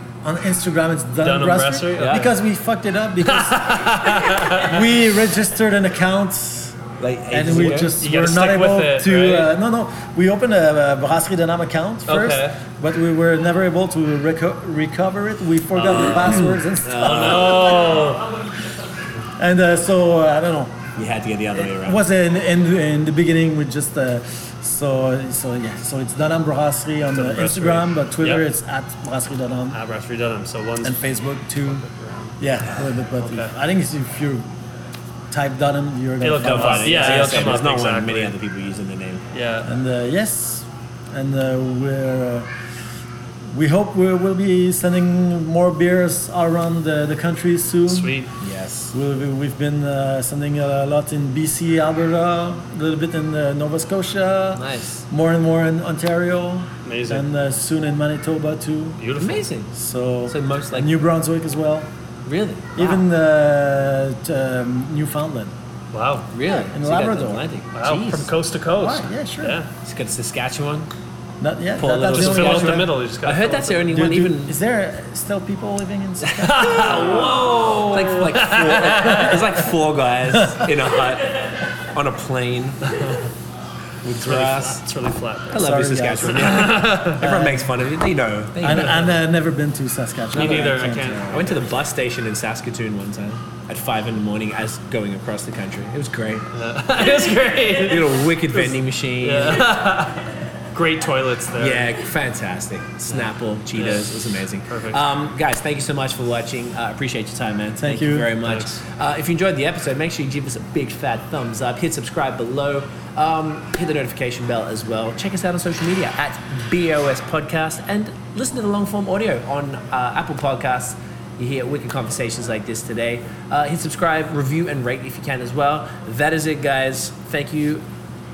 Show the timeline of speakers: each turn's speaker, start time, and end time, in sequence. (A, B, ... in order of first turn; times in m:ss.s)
0:00.2-0:06.8 A
0:01.2-0:02.2 B
0:02.0-0:02.3 C
0:03.2-0:04.9 B
0:07.0-0:07.9 C
0:07.3-0:18.1 A
0:08.0-0:09.5 B
0:12.1-0:12.6 B
0:15.8-0:18.4 B
0:15.9-0:17.9 C
0:19.4-0:20.8 A
0:21.0-0:22.0 C
0:21.5-0:29.8 A
0:27.1-0:28.5 B
0:29.7-0:31.0 B
0:30.8-0:31.8 A
0:31.6-0:32.3 B
0:32.4-0:34.5 A
0:33.2-0:33.5 B
0:35.3-0:37.6 A
0:36.2-0:38.3 B
0:36.4-0:39.2 C
0:39.3-0:39.7 B
0:39.6-0:42.5 A
0:43.5-0:48.2 A
0:47.9-0:48.3 B
0:48.4-0:48.9 C
0:48.9-0:59.0 A
0:54.5-0:55.0 C
0:56.8-0:57.2 B
0:59.0-0:59.5 B
0:59.2-0:59.7 C
0:59.7-1:01.9 A
1:00.3-1:00.9 C
1:02.2-1:03.0 C
1:02.7-1:05.5 A
1:05.9-1:06.3 B
1:06.3-1:08.3 C
1:06.5-1:07.4 A
1:07.7-1:09.7 B
1:08.8-1:09.6 A
1:09.8-1:10.9 C
1:11.4-1:13.0 A
1:11.8-1:14.6 C
1:12.0-1:13.9 B
1:13.9-1:17.2 A
1:16.4-1:19.5 B
1:16.4-1:22.9 C
1:22.9-1:23.2 B
1:24.0-1:24.8 C
1:24.0-1:27.2 B
1:25.5-1:29.1 C
1:25.5-1:27.7 A
1:28.6-1:31.6 A
1:30.3-1:31.6 B
1:31.3-1:36.5 C
1:36.5-1:41.9 B
1:37.7-1:39.7 C
1:41.6-2:07.8 C
1:43.1-1:45.0 B
1:47.8-1:48.3 A
1:48.4-1:48.8 B